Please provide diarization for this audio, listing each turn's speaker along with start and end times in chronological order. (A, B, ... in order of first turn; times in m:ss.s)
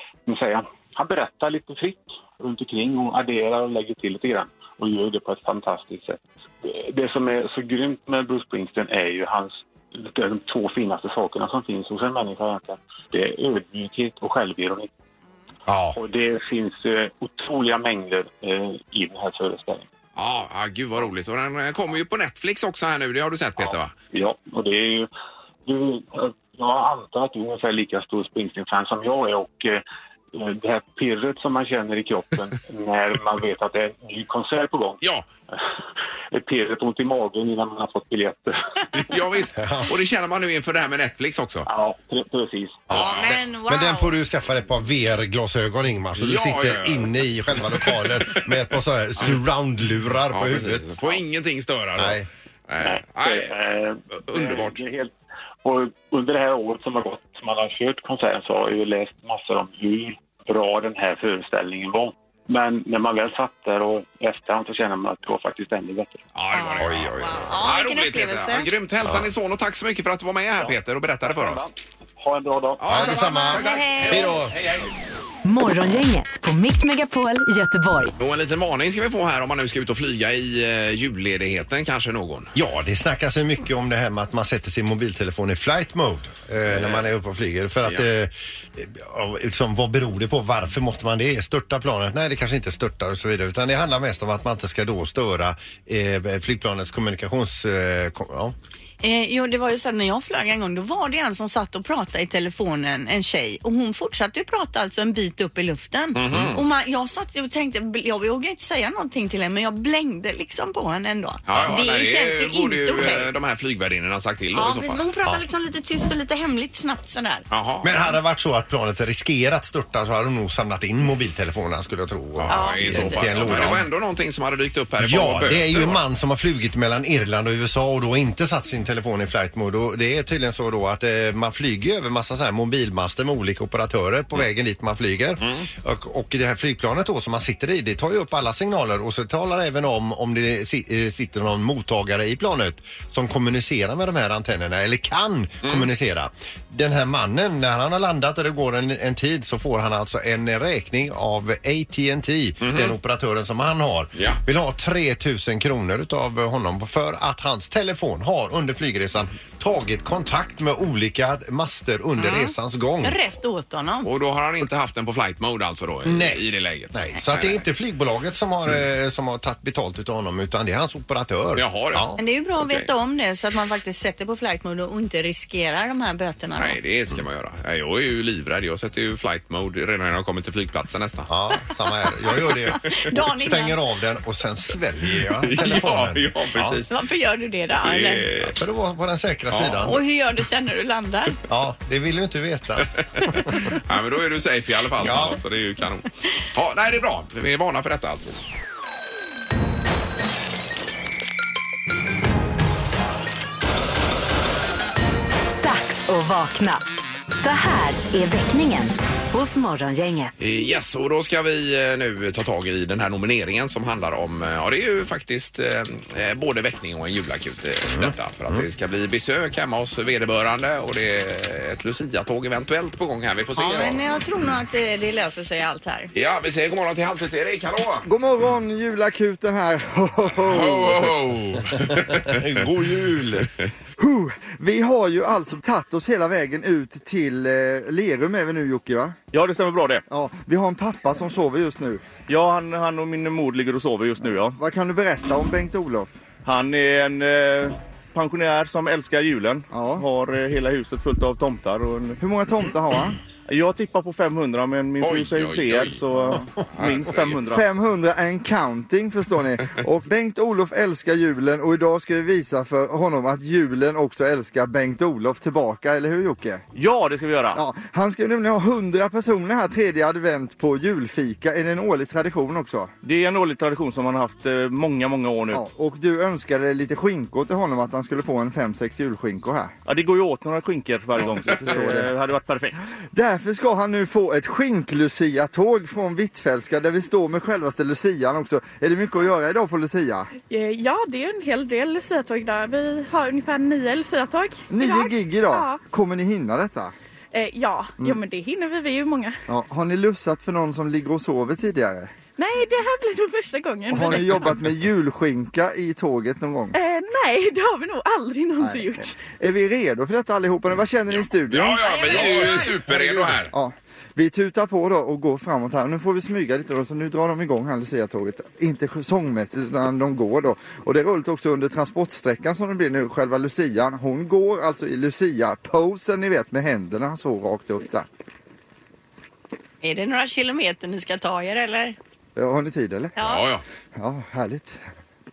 0:00.2-0:14.9 A
0:15.7-0:16.0 B
0:15.9-0:19.9 A
0:20.2-0:23.9 B
0:23.6-0:25.1 A
0:25.6-0:35.0 A
0:36.3-0:38.6 A
0:38.9-0:41.7 B
0:39.6-0:39.9 C
0:41.7-0:42.8 A
0:42.9-0:43.4 B
0:42.9-0:44.1 D
0:43.7-0:51.2 C
0:46.2-0:48.4 B
0:50.3-0:53.6 B
0:52.0-0:52.3 C
0:52.8-0:55.1 A
0:54.3-0:54.8 B
0:55.6-1:06.2 A
1:06.3-1:11.6 B
1:06.5-1:08.7 D
1:06.8-1:07.2 C
1:09.0-1:09.3 C
1:10.6-1:13.1 A
1:12.8-1:14.9 B
1:12.9-1:14.6 C
1:13.4-1:14.4 D
1:15.4-1:18.1 E
1:18.2-1:22.5 B
1:22.5-1:38.5 C
1:26.7-1:27.1 B
1:39.0-1:53.3 D
1:46.1-1:46.6 B
1:51.5-1:55.0 B
1:54.5-1:57.4 D
1:57.5-1:58.0 B
1:57.8-2:03.9 C
2:02.4-2:06.0 B
2:02.5-2:03.3 D
2:05.0-2:43.2 C
2:15.4-2:15.7 B
2:25.6-2:25.9 B
2:32.6-2:33.0 B
2:42.2-2:44.1 D
2:44.0-2:47.6 B
2:46.0-2:52.2 C
2:51.6-2:52.9 B
2:52.2-2:56.8 D
2:56.6-3:01.3 B
3:01.3-3:06.8 C
3:02.8-3:03.8 D
3:05.4-3:06.9 B
3:06.9-3:08.3 D
3:07.8-3:08.6 B
3:08.4-3:10.0 C
3:09.5-3:09.9 B
3:09.8-3:11.4 D
3:11.5-3:12.9 C
3:13.7-3:18.4 B
3:15.0-3:15.4 C
3:25.6-3:26.8 E
3:27.4-3:30.3 E
3:30.4-3:44.0 B
3:37.9-3:38.6 C
3:43.6-3:46.1 D
3:46.1-3:48.0 B
3:48.0-3:51.2 F
3:50.5-3:53.7 B
3:51.8-3:53.5 C
3:54.0-3:59.2 F
3:59.3-4:00.0 G
4:00.1-4:02.2 F
4:02.2-4:04.6 G
4:04.6-4:06.2 F
4:06.4-4:12.2 G
4:09.7-4:10.0 F
4:12.2-4:13.2 F
4:13.5-4:17.6 G
4:15.0-4:16.0 B
4:16.7-4:17.4 B
4:17.5-4:26.6 F
4:26.7-4:27.6 G
4:27.5-4:32.9 F
4:33.0-4:35.6 G
4:35.5-4:39.7 F
4:39.8-4:42.8 G
4:41.6-4:42.1 F
4:43.1-4:50.3 F
4:50.5-4:55.8 H
4:54.7-4:56.9 F
4:57.3-4:59.4 H
4:59.5-5:02.1 F
5:02.4-5:04.6 H
5:03.9-5:06.8 F
5:06.7-5:09.3 H
5:08.6-5:28.0 F
5:11.1-5:13.5 B
5:12.0-5:12.7 H
5:29.8-5:32.0 D
5:32.4-5:33.2 F
5:33.2-5:33.4 D
5:33.2-5:33.6 B
5:34.0-5:34.8 F